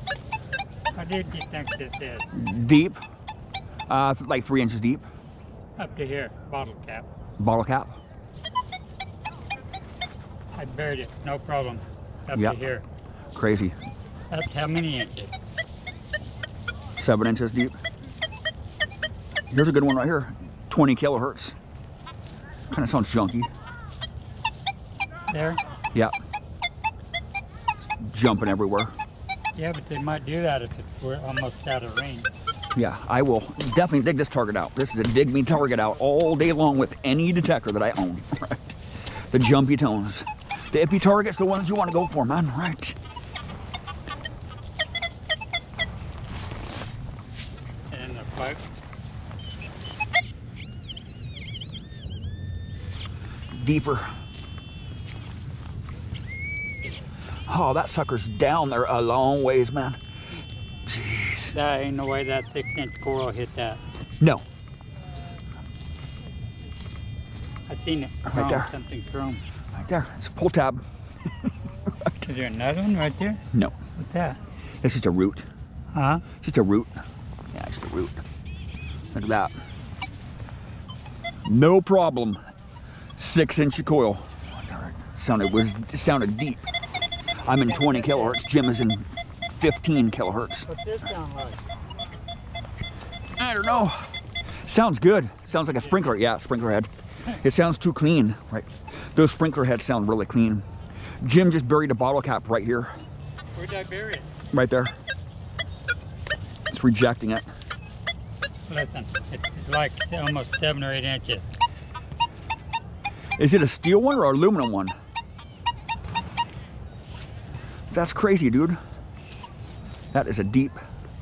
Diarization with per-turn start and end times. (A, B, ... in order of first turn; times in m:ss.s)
0:00.9-0:02.3 A
0:02.3-0:03.0 B
0:03.9-0:05.0 B
0:05.8-0:07.1 A
0:07.4-0:08.0 B
0:10.5-0:12.8 A
0:13.3-0:13.7 B
0:14.3-0:15.3 A
0:17.0-0:17.7 B
0:19.5-0:21.5 B
0:22.7-0:23.5 B
0:25.3-0:25.6 A
0:28.0-0:28.9 B
0:29.5-0:32.3 A
0:32.7-0:38.8 B
0:39.3-0:43.0 B
0:47.9-0:48.6 A
0:53.5-0:54.1 B
0:57.5-1:00.0 B
1:00.8-1:01.5 B
1:01.5-1:03.8 A
1:07.7-1:09.4 A
1:08.2-1:08.7 B
1:09.7-1:10.8 B
1:12.2-1:13.4 A
1:14.0-1:14.4 A
1:14.8-1:15.4 B
1:15.9-1:16.2 A
1:16.4-1:16.9 B
1:17.5-1:18.2 B
1:19.1-1:19.5 B
1:21.4-1:22.4 B
1:23.2-1:26.7 B
1:27.4-1:28.4 A
1:27.4-1:30.7 B
1:30.7-1:31.6 A
1:33.3-1:34.1 B
1:34.6-1:40.6 B
1:41.2-1:42.9 B
1:43.5-1:44.3 A
1:44.5-1:44.9 B
1:46.7-1:47.4 B
1:48.7-1:51.5 A
1:53.4-1:54.9 B
1:57.9-1:58.8 B
2:00.1-2:00.8 B